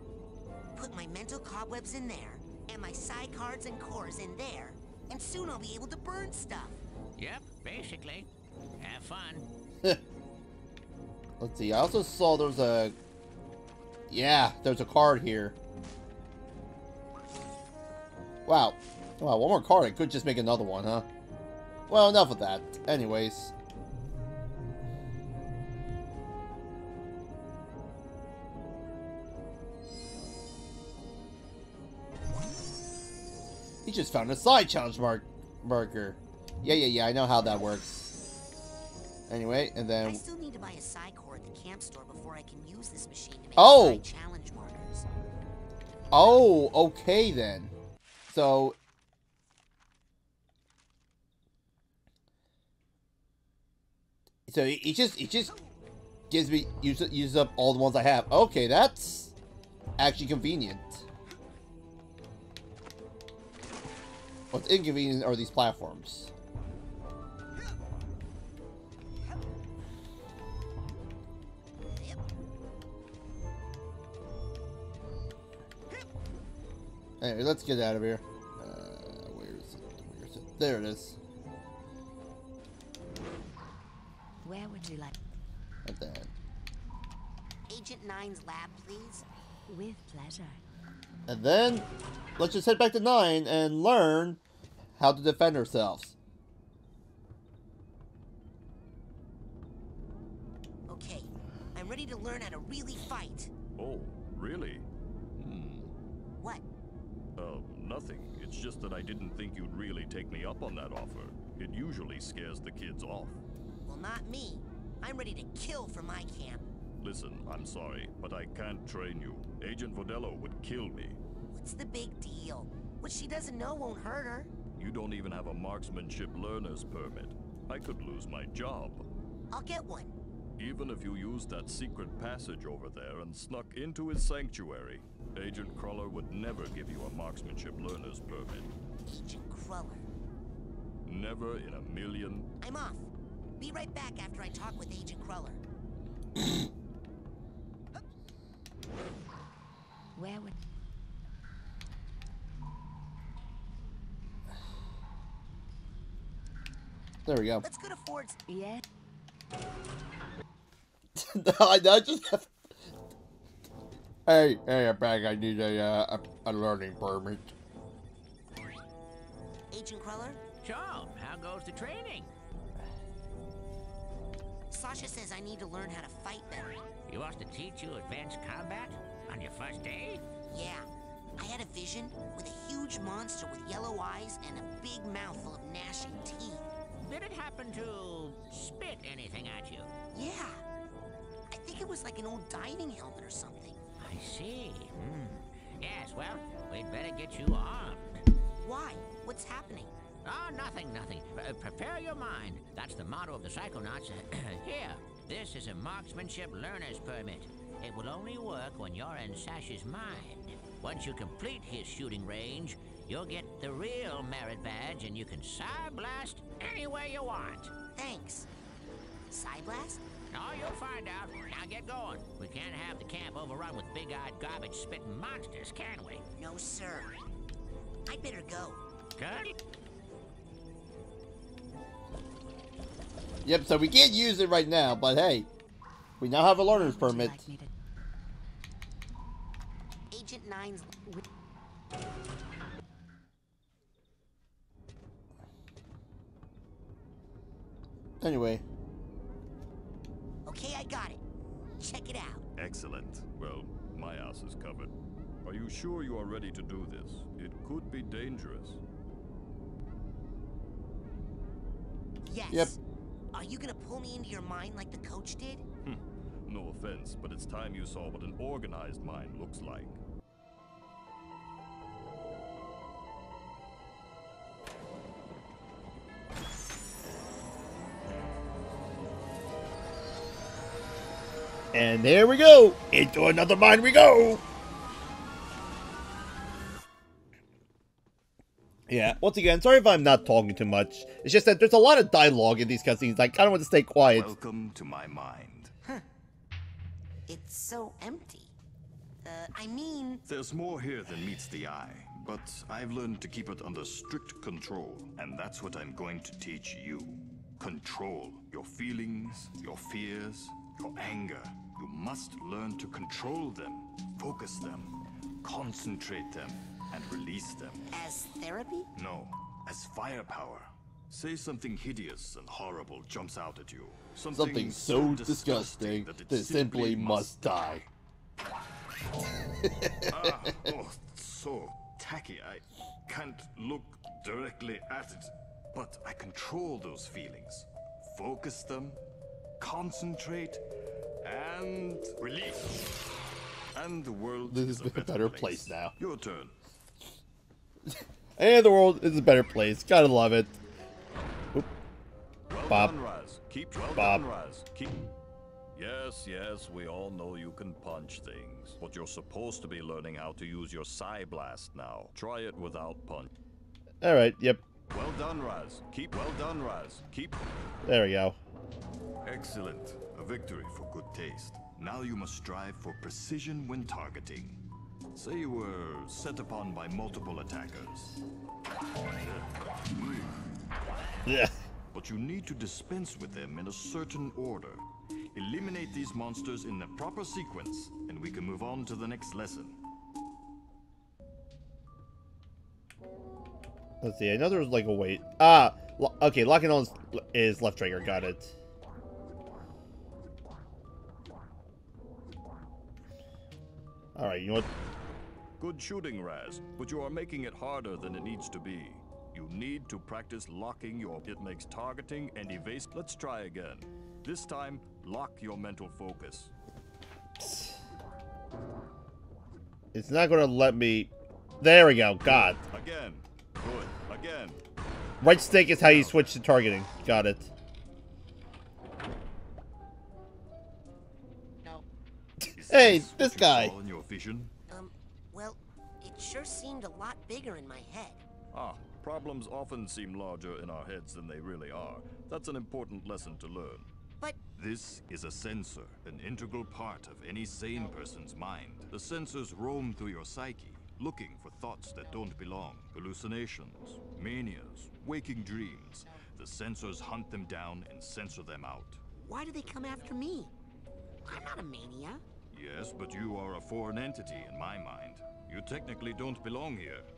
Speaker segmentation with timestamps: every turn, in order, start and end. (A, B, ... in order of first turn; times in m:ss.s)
0:00.8-0:06.8 A
0:07.2-0:09.5 B
0:11.4-0:13.0 C
0:14.1-0:15.6 C
0:18.5-0:21.1 C
0:21.9-0:23.5 C
0:33.8-0:38.2 C
0:39.3-0:40.2 C
0:40.0-0:45.1 A
0:43.6-0:44.0 C
0:46.1-0:47.7 C
0:48.3-0:48.8 C
0:54.5-0:55.5 C
0:56.3-0:59.3 C
1:00.0-1:01.1 C
1:04.5-1:06.3 C
1:17.2-1:21.2 C
1:24.4-1:25.1 D
1:25.8-1:26.3 C
1:27.7-1:29.3 A
1:29.7-1:30.6 D
1:31.3-1:34.4 C
1:35.0-1:36.2 C
1:40.9-1:43.5 A
1:43.8-1:44.9 E
1:45.4-1:45.9 E
1:46.4-1:46.6 A
1:47.4-1:53.4 E
1:53.9-1:56.7 A
1:57.0-2:01.2 E
2:01.5-2:04.5 A
2:04.8-2:09.1 E
2:09.5-2:10.2 A
2:10.6-2:18.7 E
2:19.1-2:20.1 A
2:21.0-2:22.5 E
2:22.6-2:25.6 A
2:30.2-2:30.5 D
2:37.2-2:37.6 C
2:37.6-2:38.4 A
2:38.5-2:38.8 D
2:41.2-2:42.5 C
2:44.3-2:47.5 C
2:49.7-2:50.4 A
2:50.6-2:52.3 B
2:54.7-2:56.8 A
2:57.1-3:00.2 B
3:00.5-3:06.7 A
3:07.0-3:09.9 B
3:10.1-3:10.6 A
3:11.5-3:13.8 A
3:14.0-3:18.2 B
3:18.6-3:19.9 A
3:20.2-3:37.7 B
3:38.0-3:38.5 A
3:39.3-3:40.0 A
3:40.3-3:46.2 B
3:46.4-3:47.2 A
3:48.1-3:48.8 A
3:49.2-3:49.6 B
3:53.4-3:55.5 C
3:56.2-3:57.5 C
3:56.6-3:57.7 D
4:00.1-4:01.1 A
4:08.2-4:08.6 C
4:10.5-4:11.2 A
4:11.8-4:12.4 A
4:12.6-4:14.9 E
4:15.4-4:18.8 E
4:22.2-4:22.8 A
4:22.5-4:22.8 C
4:23.3-4:25.6 A
4:25.8-4:30.0 E
4:41.7-4:44.4 C
4:48.9-4:54.3 C
4:54.0-4:55.7 E
4:57.3-4:58.5 A
4:59.2-5:00.2 A
5:00.3-5:17.9 E
5:17.9-5:18.9 A
5:19.0-5:27.9 E
5:24.3-5:27.8 C
5:29.6-5:30.5 C
5:30.0-5:39.0 E
5:39.6-5:40.6 E
5:41.2-5:42.9 E
5:43.7-5:46.5 E
5:44.5-5:46.0 C
5:47.9-5:50.6 C
5:52.5-5:55.0 E
5:52.7-5:53.0 C
5:54.0-5:54.3 C
5:55.7-6:03.3 E
6:04.0-6:04.6 C
6:04.9-6:07.4 E
6:07.8-6:08.4 C
6:09.2-6:14.6 E
6:15.1-6:18.2 E
6:19.1-6:20.4 E
6:21.2-6:21.5 C
6:21.9-6:29.8 E
6:34.0-6:38.6 C
6:44.2-6:44.7 C
6:45.6-6:56.5 E
6:57.4-6:57.8 C
6:59.9-7:02.6 C
7:02.7-7:04.6 E
7:05.2-7:07.5 C
7:05.2-7:06.3 E
7:12.4-7:13.8 C
7:12.5-7:14.5 E
7:14.7-7:18.2 A
7:18.5-7:23.9 E
7:24.6-7:39.0 E
7:39.2-7:40.5 A
7:41.2-7:42.2 A
7:42.5-7:47.1 E